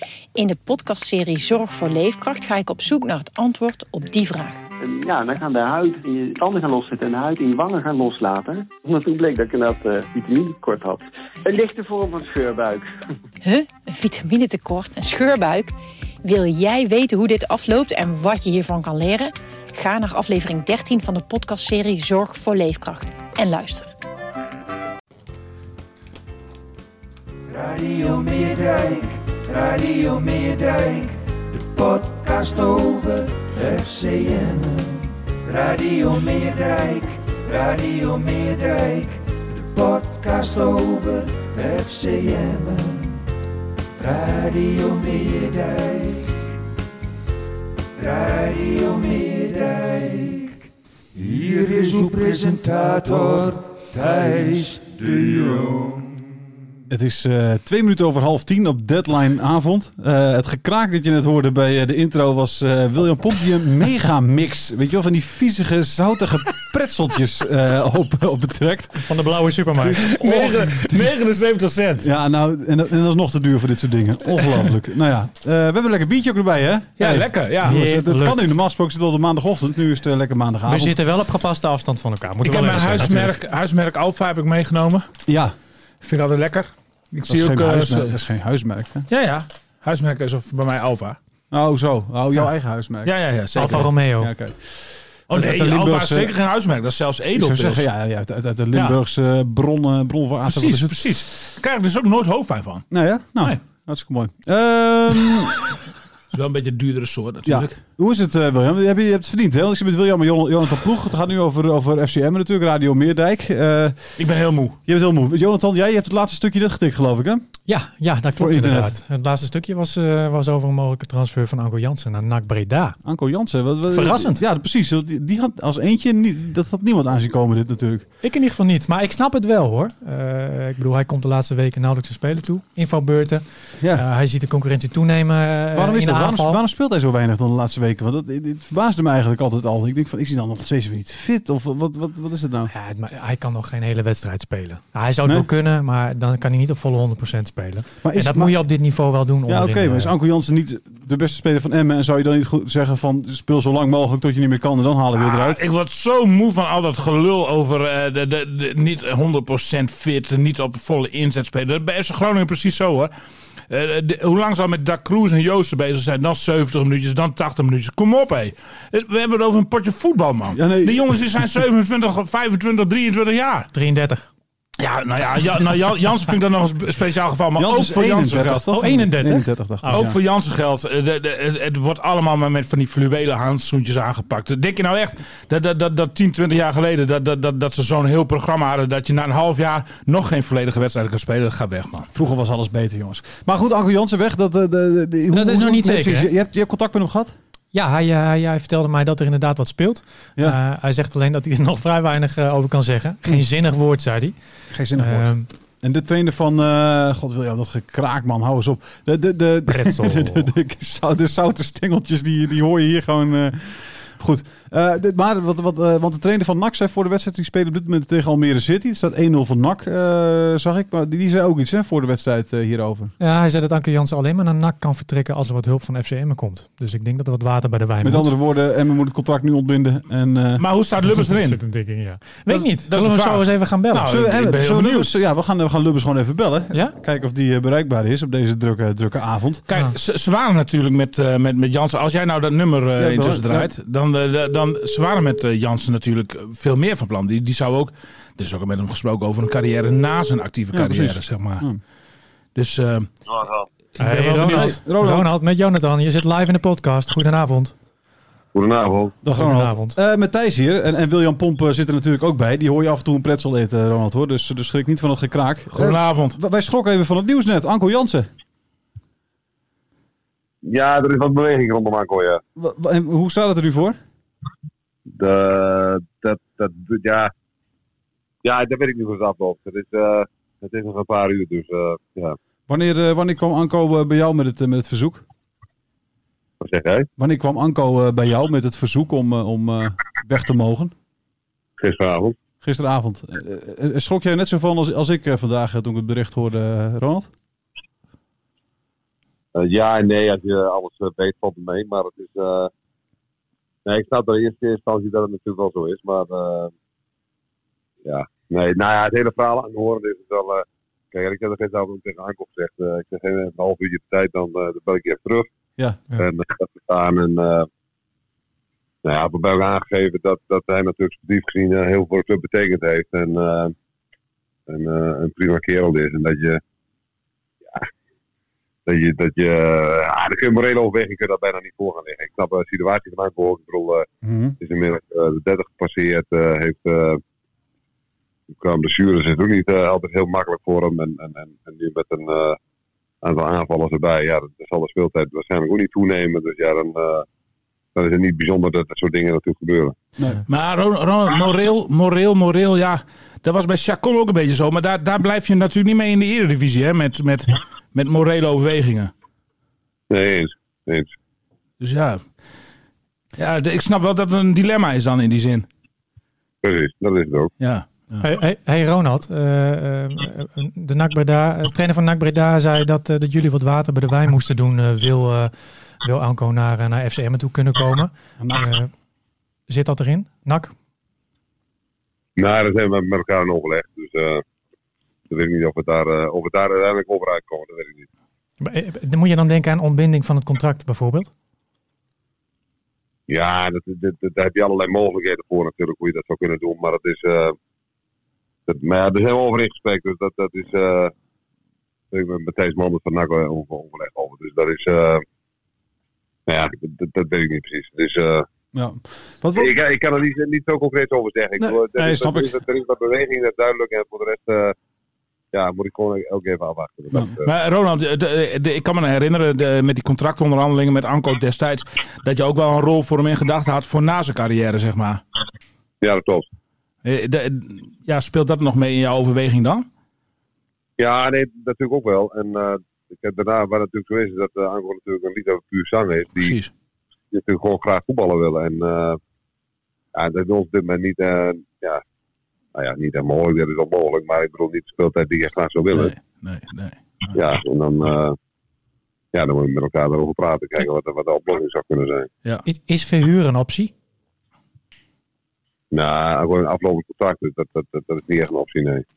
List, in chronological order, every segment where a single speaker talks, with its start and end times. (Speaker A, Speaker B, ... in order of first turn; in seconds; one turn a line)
Speaker A: 0.3-4.6
Speaker B: 4.8-12.9
Speaker A: 13.4-23.9
Speaker C: 27.5-43.2
Speaker C: 44.0-46.4
Speaker C: 48.0-50.6
Speaker C: 51.1-56.1
Speaker D: 56.9-69.1
Speaker E: 69.0-70.1
Speaker D: 69.8-71.1
Speaker F: 70.1-72.1
Speaker D: 72.0-81.0
Speaker F: 77.0-77.8
Speaker E: 77.6-78.4
Speaker E: 80.7-83.3
Speaker F: 82.4-85.1
Speaker D: 82.8-83.0
Speaker D: 85.3-85.5
Speaker F: 86.0-88.2
Speaker D: 87.3-89.1
Speaker F: 89.1-91.2
Speaker D: 91.5-93.1
Speaker F: 93.0-93.9
Speaker E: 93.5-94.3
Speaker D: 93.7-96.3
Speaker F: 95.3-97.8
Speaker D: 97.3-101.0
Speaker F: 98.7-99.0
Speaker F: 100.5-103.6
Speaker D: 102.9-105.6
Speaker F: 106.3-107.8
Speaker D: 107.4-114.2
Speaker F: 114.2-114.8
Speaker D: 114.8-117.4
Speaker E: 117.7-123.0
Speaker D: 118.3-119.0
Speaker D: 123.0-128.1
Speaker E: 123.9-124.4
Speaker E: 128.2-136.6
Speaker D: 135.7-142.7
Speaker E: 142.7-150.1
Speaker D: 148.0-148.6
Speaker D: 149.5-155.6
Speaker F: 155.2-163.1
Speaker F: 163.7-173.7
Speaker D: 170.5-171.2
Speaker E: 173.7-174.3
Speaker F: 174.8-178.6
Speaker D: 177.6-180.2
Speaker E: 178.7-180.1
Speaker F: 179.9-192.1
Speaker D: 192.1-197.3
Speaker E: 195.3-196.3
Speaker E: 197.7-205.5
Speaker D: 204.7-223.1
Speaker E: 209.7-210.5
Speaker E: 223.2-228.3
Speaker D: 228.0-230.6
Speaker F: 230.6-231.9
Speaker E: 231.1-234.0
Speaker F: 232.4-235.1
Speaker D: 233.9-239.6
Speaker F: 239.7-251.7
Speaker D: 243.0-243.7
Speaker D: 250.7-251.8
Speaker F: 252.5-253.2
Speaker G: 253.3-253.7
Speaker F: 254.0-254.8
Speaker E: 254.0-257.7
Speaker D: 254.4-255.3
Speaker G: 258.5-259.2
Speaker D: 259.2-268.3
Speaker E: 259.4-260.0
Speaker F: 265.7-266.4
Speaker G: 270.6-272.4
Speaker D: 272.6-274.0
Speaker G: 275.1-277.3
Speaker G: 278.4-282.4
Speaker D: 282.7-285.2
Speaker G: 286.6-287.1
Speaker D: 287.2-290.9
Speaker G: 291.8-292.4
Speaker D: 292.6-297.3
Speaker G: 299.6-302.7
Speaker G: 303.9-306.7
Speaker G: 308.0-315.5
Speaker D: 315.8-316.0
Speaker G: 316.2-317.7
Speaker G: 319.0-323.7
Speaker G: 324.7-326.6
Speaker G: 328.9-334.1
Speaker D: 334.2-334.6
Speaker G: 334.6-337.2
Speaker G: 338.6-342.6
Speaker G: 343.2-347.2
Speaker G: 347.9-349.9
Speaker D: 350.2-350.4
Speaker F: 350.5-359.1
Speaker G: 360.1-361.1
Speaker F: 361.8-362.2
Speaker F: 363.4-365.6
Speaker G: 366.6-367.5
Speaker F: 367.6-368.2
Speaker E: 368.2-378.9
Speaker D: 378.4-378.6
Speaker E: 379.7-380.7
Speaker G: 382.4-384.4
Speaker G: 385.3-388.1
Speaker E: 388.6-391.3
Speaker G: 393.3-397.6
Speaker G: 398.7-401.1
Speaker G: 402.1-405.2
Speaker G: 406.5-408.4
Speaker D: 408.7-409.7
Speaker G: 409.5-414.7
Speaker D: 411.6-412.5
Speaker G: 415.5-417.5
Speaker F: 417.4-425.2
Speaker G: 426.0-426.4
Speaker F: 427.0-429.9
Speaker G: 431.0-436.6
Speaker F: 436.4-436.7
Speaker G: 437.3-439.2
Speaker G: 440.1-442.0
Speaker G: 442.7-446.1
Speaker F: 445.9-447.3
Speaker G: 447.3-448.4
Speaker G: 449.3-452.3
Speaker E: 452.6-453.9
Speaker G: 455.9-459.0